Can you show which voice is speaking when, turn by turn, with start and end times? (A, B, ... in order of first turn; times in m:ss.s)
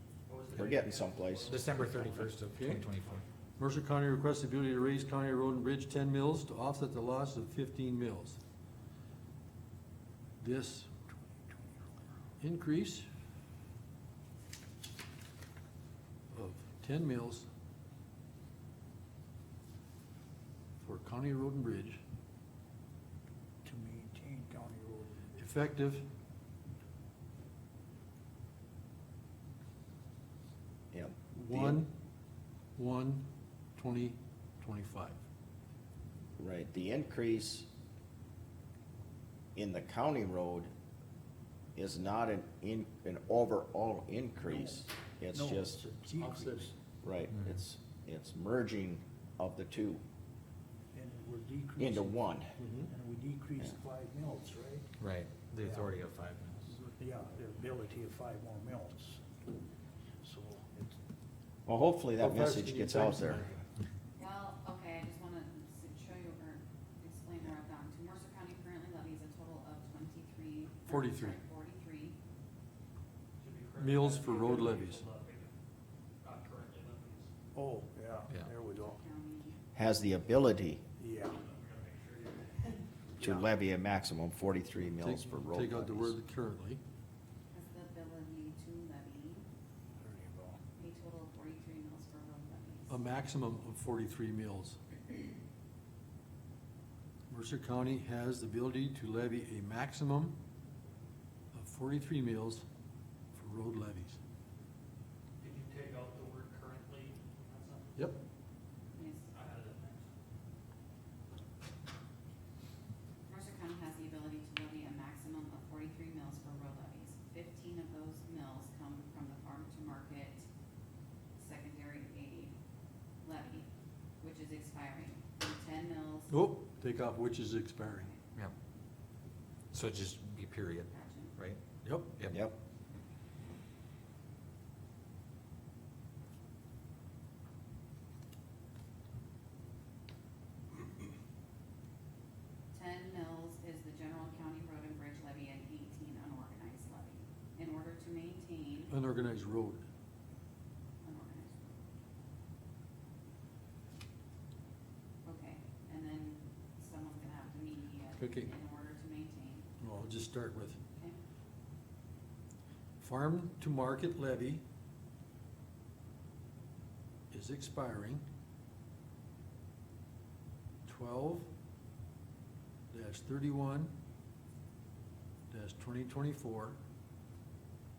0:00.3-0:02.4 A
0:00.5-0:01.7 B
0:01.4-0:03.2 C
0:02.4-0:02.9 D
0:03.6-0:08.4 D
0:10.4-0:10.9 D
0:12.4-0:13.1 D
0:16.3-0:17.5 D
0:20.8-0:22.0 D
0:23.6-0:25.3 E
0:25.4-0:26.1 D
0:30.9-0:31.8 B
0:31.3-0:31.9 D
0:32.8-0:35.2 D
0:36.4-0:37.7 B
0:39.6-0:40.7 B
0:41.8-0:45.8 B
0:44.4-0:46.7 E
0:46.1-0:46.7 D
0:47.0-0:50.0 B
0:47.3-0:47.6 C
0:50.9-0:52.3 E
0:51.8-0:52.6 B
0:52.6-0:52.9 D
0:52.8-0:54.9 E
0:55.0-0:56.6 C
0:55.6-0:55.9 E
0:56.7-0:59.2 E
1:00.2-1:01.0 E
1:01.7-1:03.5 B
1:02.2-1:03.6 D
1:04.2-1:12.2 F
1:10.9-1:11.4 D
1:13.4-1:15.5 A
1:13.8-1:15.0 D
1:16.2-1:17.3 A
1:17.6-1:19.0 E
1:18.8-1:19.6 F
1:19.8-1:20.8 B
1:21.0-1:21.4 E
1:21.2-1:22.9 A
1:23.2-1:26.2 B
1:23.2-1:23.5 E
1:25.0-1:26.8 D
1:27.5-1:29.5 F
1:30.0-1:30.6 E
1:30.8-1:33.0 F
1:32.9-1:34.8 D
1:37.3-1:40.4 D
1:41.5-1:42.6 D
1:43.3-1:44.2 D
1:45.4-1:48.1 A
1:48.0-1:48.2 D
1:49.0-1:49.3 F
1:49.3-1:50.1 A
1:53.3-2:00.5 F
2:01.4-2:02.5 F
2:03.2-2:03.7 F
2:04.2-2:06.3 F
2:06.3-2:08.1 D
2:09.7-2:12.4 C
2:10.9-2:11.3 F
2:11.8-2:12.2 D
2:12.3-2:12.6 B
2:22.7-2:28.9 F
2:28.9-2:29.9 D
2:31.0-2:31.7 F
2:35.2-2:39.7 F
2:38.2-2:38.5 D
2:39.8-2:40.8 D
2:43.0-2:44.6 D
2:47.3-2:48.2 D
2:50.9-2:51.5 D
2:52.9-2:53.9 D
2:55.5-2:56.8 D